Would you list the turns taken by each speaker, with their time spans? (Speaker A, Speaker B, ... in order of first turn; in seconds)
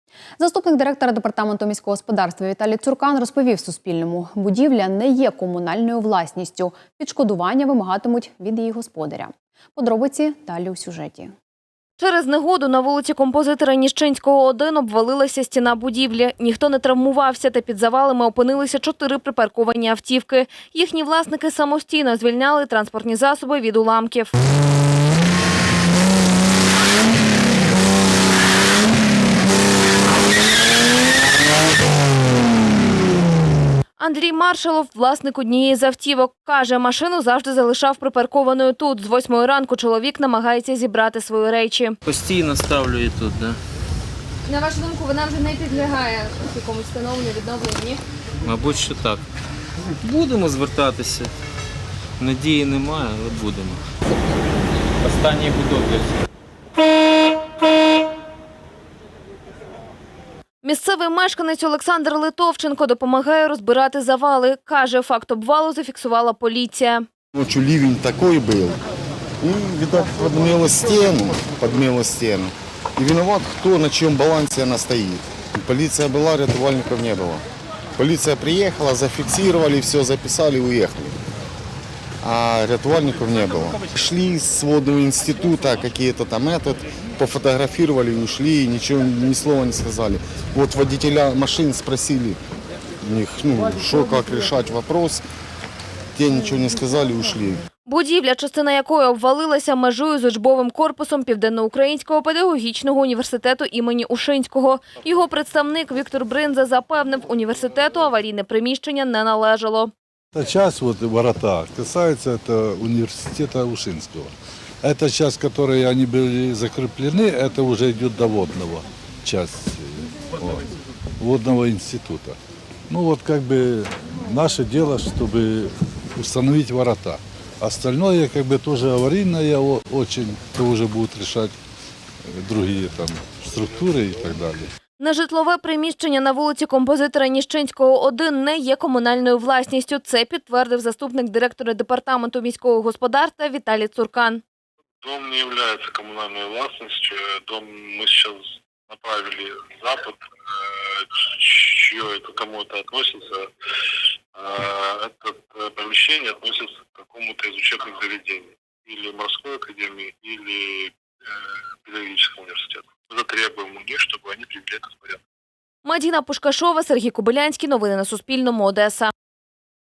Speaker A: 0.4-11.3
Speaker B: 12.0-24.4, 34.0-42.0, 44.5-48.0, 60.6-67.0, 97.8-109.9, 135.0-144.4, 165.8-169.1
Speaker C: 42.0-43.6, 48.4-49.2, 50.0-51.3, 52.2-53.8, 55.0-56.1
Speaker D: 67.3-68.8, 69.4-77.4, 78.0-81.2, 82.2-92.4, 93.0-95.2, 96.1-97.6
Speaker E: 110.3-114.3, 114.8-120.7, 121.2-122.3, 122.9-131.5, 132.2-134.7
Speaker F: 145.0-153.5, 154.3-160.9, 161.8-165.2